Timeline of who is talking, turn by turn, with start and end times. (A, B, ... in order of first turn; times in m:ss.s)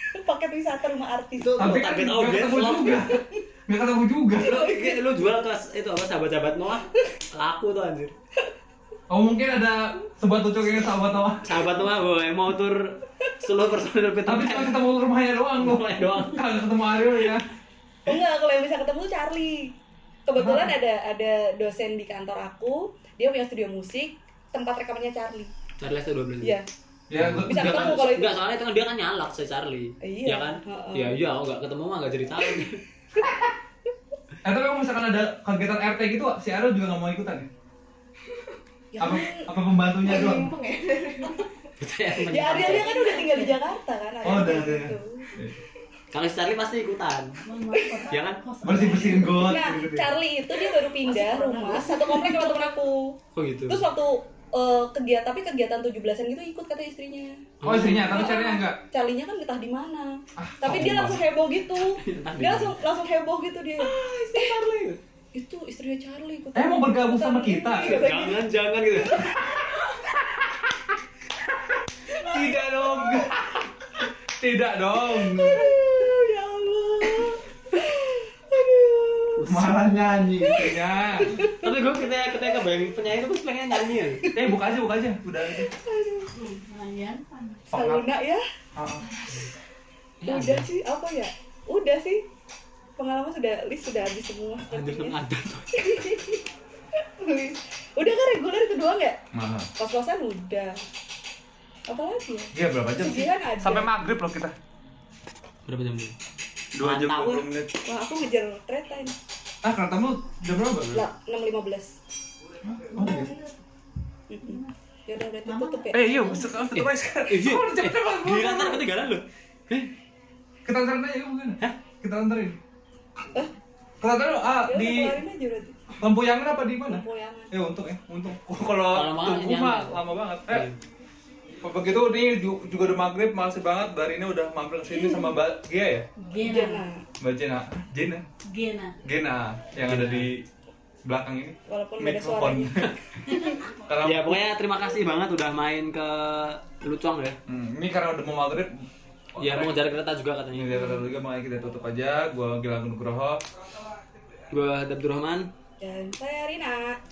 0:00.1-0:01.8 A
0:01.4-0:03.1 B
0:01.6-0:04.7 C
0:04.4-0:08.1 B
0:04.4-0:05.0 A
0:09.1-0:11.6 C
0:11.4-0:14.9 B
0:14.2-0:17.4 C
0:15.6-0:16.4 B
0:18.0-0:19.7 A
0:20.2-0:25.5 A
0:20.4-0:20.7 C
0:25.8-0:26.6 B
0:26.4-0:26.6 A
0:27.1-0:28.0 C
0:27.1-0:32.8 B
0:27.4-0:28.4 A
0:30.0-0:31.2 A
0:33.2-0:33.5 C
0:34.4-0:37.5 C
0:38.9-0:41.4 A
0:39.0-0:40.5 C
0:40.0-0:41.4 D
0:41.8-0:43.1 B
0:42.3-0:45.3 A
0:42.4-0:43.6 D
0:44.2-0:45.5 C
0:46.1-0:47.4 B
0:47.4-0:49.6 D
0:47.7-0:48.1 A
0:48.1-0:48.9 B
0:48.6-0:50.1 C
0:49.2-1:04.6 A
0:50.6-0:52.7 D
0:53.3-0:53.8 B
0:57.6-0:58.3 B
0:57.6-0:58.8 C
1:00.4-1:01.2 C
1:00.8-1:01.2 B
1:01.8-1:02.8 B
1:03.9-1:05.0 B
1:05.3-1:08.4 A
1:06.5-1:08.0 C
1:07.8-1:09.6 B
1:12.2-1:13.6 C
1:14.4-1:15.7 C
1:15.5-1:19.4 A
1:19.4-1:19.8 B
1:19.4-1:21.3 C
1:20.4-1:21.7 A
1:21.4-1:24.2 B
1:24.2-1:24.5 A
1:24.3-1:25.7 C
1:25.6-1:26.3 A
1:26.3-1:27.6 D
1:27.7-1:28.1 C
1:27.7-1:28.4 A
1:28.7-1:29.0 C
1:29.3-1:29.5 B
1:30.2-1:30.7 B
1:30.2-1:32.2 A
1:33.0-1:35.2 A
1:34.6-1:36.0 B
1:35.7-1:36.4 A
1:36.9-1:39.2 A
1:39.3-1:39.7 C
1:39.8-1:40.8 A
1:41.9-1:43.9 A
1:42.5-1:44.5 C
1:45.6-1:46.1 B
1:46.7-1:47.8 C
1:46.8-1:47.5 B
1:47.8-1:49.1 A
1:49.6-1:51.0 C
1:50.9-1:52.0 A
1:52.6-1:53.3 C
1:52.9-1:53.5 D
1:54.3-1:56.5 A
1:54.4-1:54.7 D
1:55.4-1:56.4 D
1:55.9-1:58.8 C
1:56.7-1:59.9 B
2:00.6-2:02.6 C
2:04.0-2:05.2 C
2:04.6-2:05.9 A
2:06.0-2:10.7 C
2:06.9-2:07.5 A
2:08.9-2:10.8 B
2:11.6-2:16.1 C
2:14.9-2:15.3 A
2:16.2-2:16.8 D
2:16.4-2:17.0 A
2:17.2-2:18.2 C
2:18.5-2:18.9 D
2:19.0-2:20.4 C
2:19.8-2:20.3 B
2:21.0-2:22.9 C
2:21.7-2:22.8 A
2:22.8-2:27.4 B
2:23.2-2:23.6 D
2:23.8-2:24.4 C
2:27.5-2:28.8 C
2:29.3-2:29.8 C
2:29.4-2:30.8 B
2:30.5-2:33.4 C
2:34.5-2:35.5 B
2:35.8-2:37.0 A